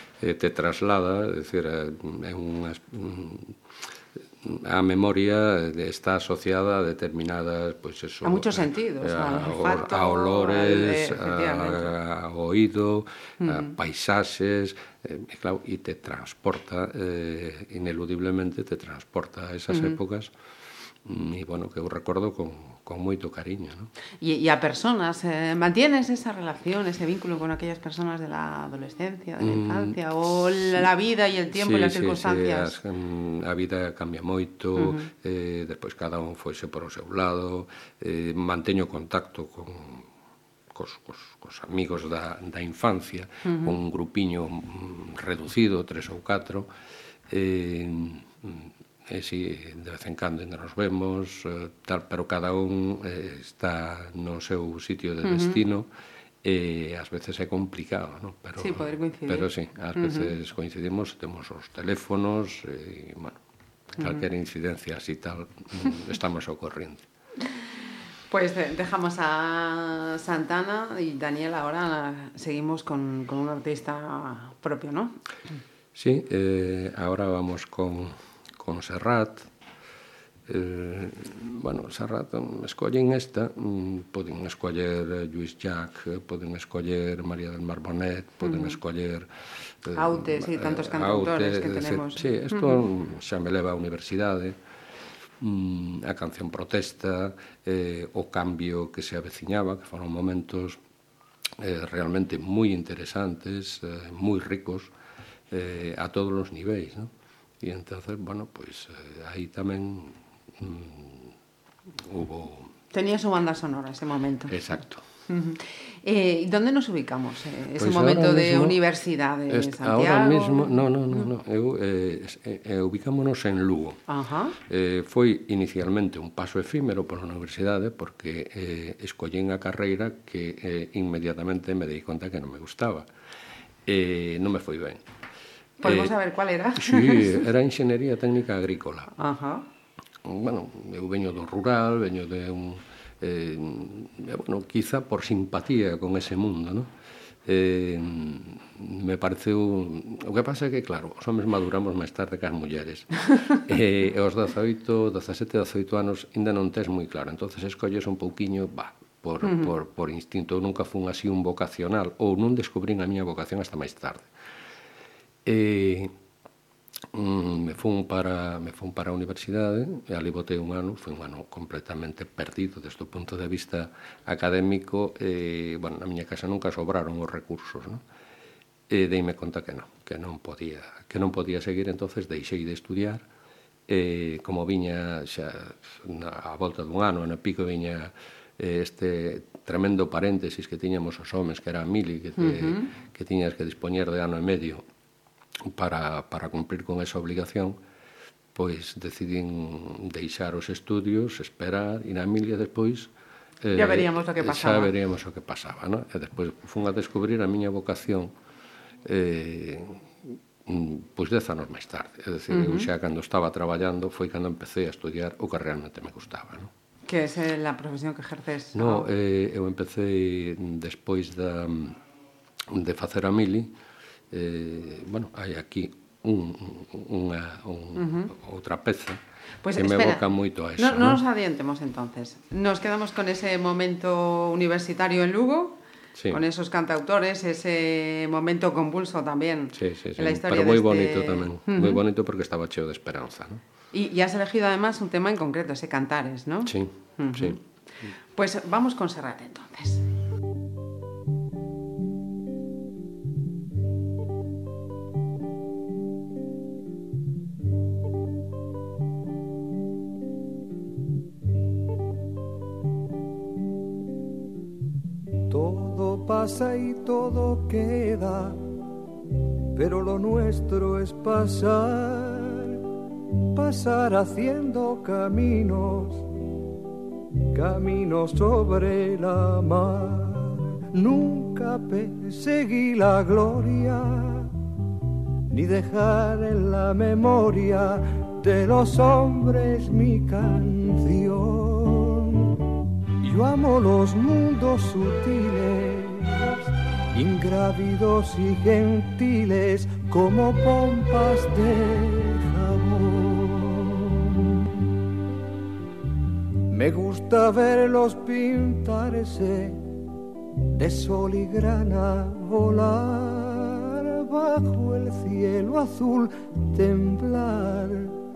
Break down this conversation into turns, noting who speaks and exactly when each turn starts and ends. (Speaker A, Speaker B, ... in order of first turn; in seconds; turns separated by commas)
Speaker A: 0.2-3.6, Speaker A: 4.4-20.3, Speaker B: 8.2-11.9, Speaker B: 13.4-13.7, Speaker B: 19.7-20.0, Speaker A: 21.0-23.9, Speaker B: 24.2-32.8, Speaker A: 29.4-30.0, Speaker A: 31.5-40.1, Speaker B: 34.8-35.1, Speaker A: 40.7-46.7, Speaker B: 43.5-43.7, Speaker A: 47.3-55.9, Speaker B: 55.2-55.6, Speaker A: 56.4-63.4, Speaker B: 58.6-60.3, Speaker A: 64.0-67.1, Speaker B: 64.0-64.2, Speaker B: 68.3-75.2, Speaker A: 76.0-79.5, Speaker A: 80.5-94.6, Speaker B: 88.5-88.7, Speaker B: 90.0-92.8, Speaker A: 95.4-100.8, Speaker A: 101.6-104.9, Speaker A: 105.5-111.3, Speaker A: 112.0-112.7, Speaker B: 112.9-121.2, Speaker A: 114.5-115.0, Speaker A: 117.8-118.8, Speaker A: 119.5-124.0, Speaker B: 124.1-124.6, Speaker A: 124.6-133.1, Speaker A: 133.9-135.1, Speaker B: 135.8-137.4, Speaker A: 135.8-136.1, Speaker A: 136.8-139.1, Speaker B: 139.2-139.7, Speaker A: 140.2-146.9, Speaker A: 147.5-164.3, Speaker B: 159.4-159.7, Speaker A: 165.4-166.1, Speaker A: 167.1-178.0, Speaker A: 178.9-183.2, Speaker A: 183.9-194.8, Speaker B: 192.4-192.9, Speaker A: 195.7-197.8, Speaker A: 198.5-208.3, Speaker B: 203.7-204.9, Speaker A: 209.0-216.7, Speaker B: 212.5-212.9, Speaker B: 217.1-219.1, Speaker A: 218.7-222.0, Speaker A: 222.7-223.7, Speaker A: 224.3-229.2, Speaker B: 228.0-228.3, Speaker B: 229.6-230.2, Speaker A: 229.8-231.2, Speaker B: 230.8-235.8, Speaker A: 236.2-236.4, Speaker B: 236.3-242.0, Speaker A: 239.7-243.6, Speaker B: 243.9-247.6, Speaker A: 246.7-247.6, Speaker B: 248.3-250.1, Speaker C: 265.5-268.6, Speaker C: 269.8-272.8, Speaker C: 273.6-276.3, Speaker C: 277.5-284.5, Speaker C: 285.5-292.6, Speaker C: 293.2-304.3, Speaker C: 306.7-309.8, Speaker C: 310.7-318.2